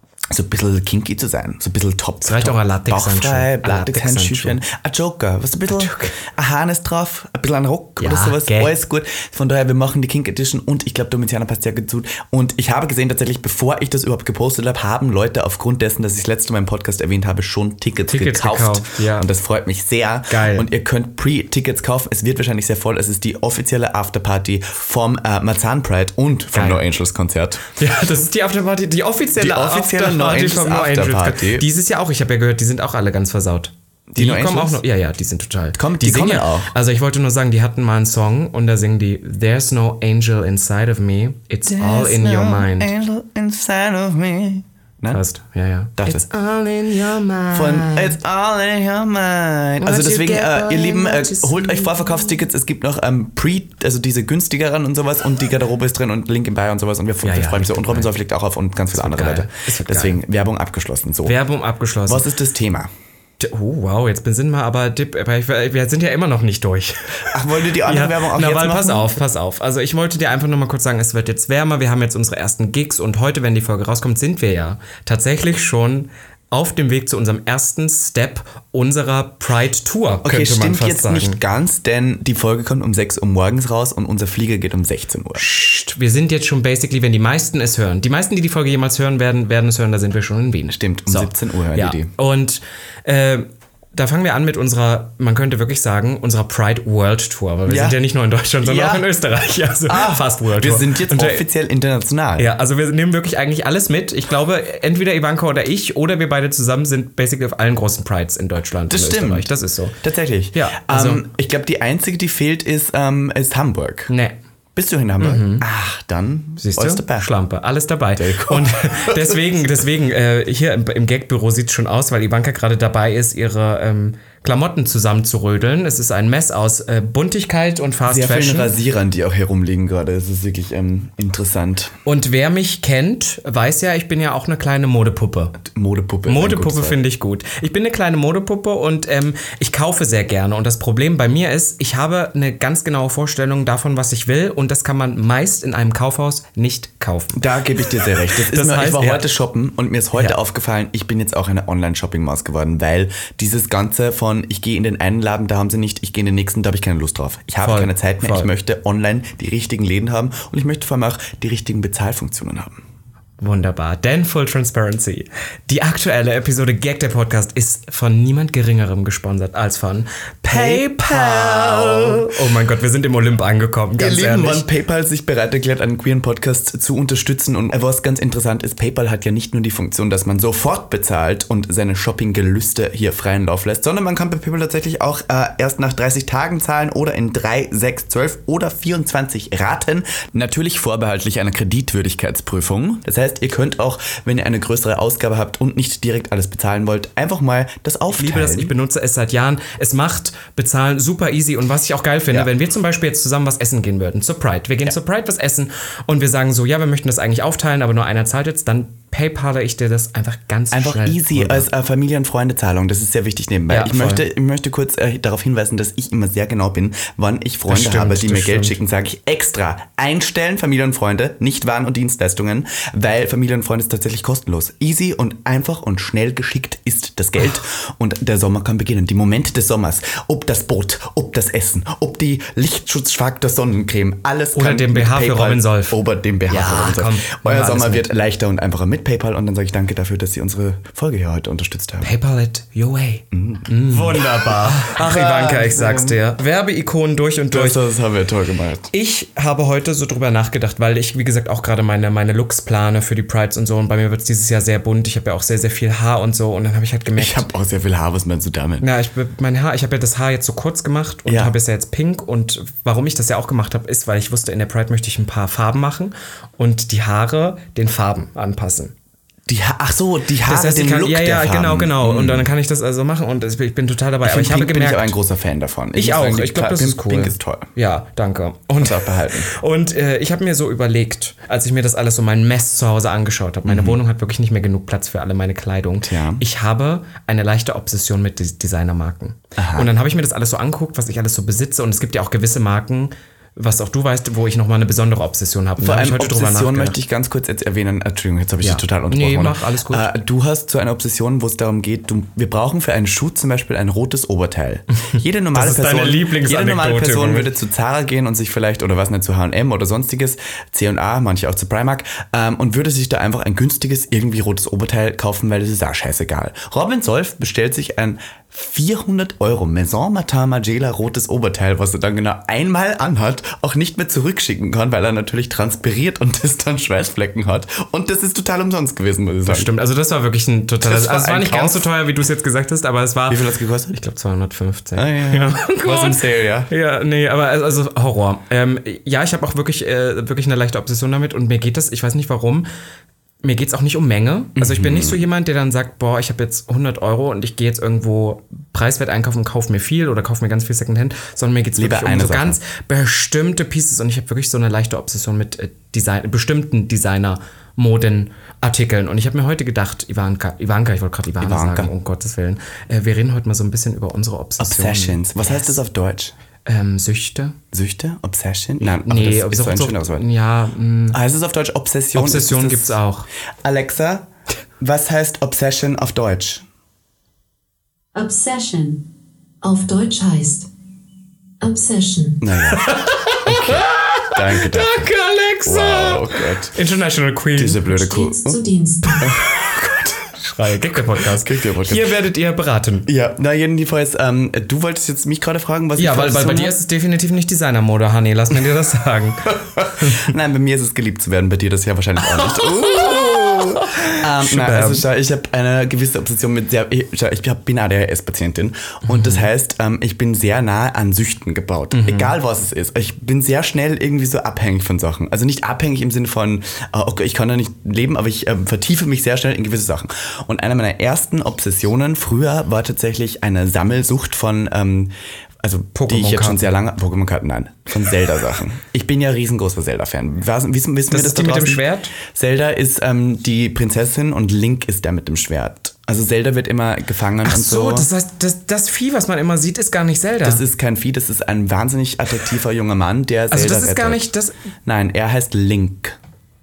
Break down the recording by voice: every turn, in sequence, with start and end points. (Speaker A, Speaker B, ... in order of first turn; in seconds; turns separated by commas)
Speaker A: 0.3-27.6, Speaker B: 2.2-4.6, Speaker B: 5.7-6.2, Speaker B: 8.0-8.7, Speaker B: 18.1-19.3, Speaker B: 20.3-20.6, Speaker B: 26.5-26.8, Speaker B: 27.8-42.9, Speaker A: 29.4-31.7, Speaker A: 34.1-34.8, Speaker A: 35.8-36.7, Speaker A: 41.6-45.2, Speaker B: 45.1-48.2, Speaker A: 46.0-46.2, Speaker A: 47.5-61.4, Speaker B: 49.8-52.1, Speaker B: 57.2-58.1, Speaker B: 58.9-60.2, Speaker B: 61.2-62.2, Speaker A: 62.1-62.9, Speaker B: 63.4-81.4, Speaker A: 67.2-69.2, Speaker A: 80.2-85.4, Speaker B: 85.4-101.4, Speaker A: 90.7-92.1, Speaker A: 97.7-98.0, Speaker A: 98.6-99.1, Speaker A: 99.9-102.5, Speaker B: 102.4-110.0, Speaker A: 108.9-114.1, Speaker B: 110.5-111.2, Speaker B: 114.1-114.4, Speaker A: 114.7-117.3, Speaker B: 115.2-115.6, Speaker B: 116.6-128.7, Speaker A: 118.2-119.7, Speaker A: 128.1-131.9, Speaker B: 132.0-135.6, Speaker A: 135.6-137.0, Speaker B: 136.2-149.3, Speaker A: 147.3-162.8, Speaker B: 157.6-158.5, Speaker B: 163.4-174.6, Speaker A: 170.5-172.3, Speaker A: 174.0-198.7, Speaker B: 198.1-211.7, Speaker A: 210.7-242.1, Speaker B: 213.7-214.2, Speaker B: 217.7-218.8, Speaker B: 234.5-238.1, Speaker B: 242.0-247.8, Speaker A: 243.3-246.2, Speaker A: 247.5-248.9, Speaker B: 248.9-257.5, Speaker A: 257.1-258.9, Speaker B: 258.8-268.9, Speaker A: 261.2-261.5, Speaker A: 269.5-272.5, Speaker B: 270.4-275.1, Speaker A: 274.2-277.7, Speaker B: 275.9-297.0, Speaker A: 278.8-279.5, Speaker A: 283.6-284.0, Speaker A: 286.0-286.4, Speaker A: 289.6-289.9, Speaker A: 295.8-329.7, Speaker B: 298.6-300.1, Speaker B: 305.0-307.5, Speaker B: 329.4-333.4, Speaker A: 330.8-331.9, Speaker A: 333.3-334.0, Speaker B: 333.9-342.6, Speaker A: 334.9-336.7, Speaker B: 343.4-365.8, Speaker A: 344.6-345.2, Speaker A: 351.8-352.6, Speaker A: 361.4-361.9, Speaker A: 364.6-366.3, Speaker B: 366.6-367.6, Speaker A: 367.7-370.3, Speaker B: 368.8-371.2, Speaker A: 371.1-373.0, Speaker B: 372.1-373.3, Speaker A: 373.6-374.3, Speaker A: 374.8-376.6, Speaker C: 378.1-379.1, Speaker C: 379.6-380.7, Speaker C: 381.6-382.4, Speaker A: 382.4-385.1, Speaker B: 382.7-387.9, Speaker A: 385.6-386.7, Speaker A: 387.6-388.6, Speaker C: 387.9-389.3, Speaker B: 389.0-393.1, Speaker A: 389.2-390.2, Speaker A: 391.1-392.1, Speaker A: 393.1-396.8, Speaker B: 396.0-400.3, Speaker A: 399.5-438.1, Speaker B: 402.4-405.0, Speaker B: 409.1-409.5, Speaker B: 411.9-412.3, Speaker B: 425.9-426.7, Speaker B: 431.1-432.1, Speaker B: 437.4-440.6, Speaker A: 440.4-444.2, Speaker B: 443.5-444.5, Speaker A: 444.8-446.2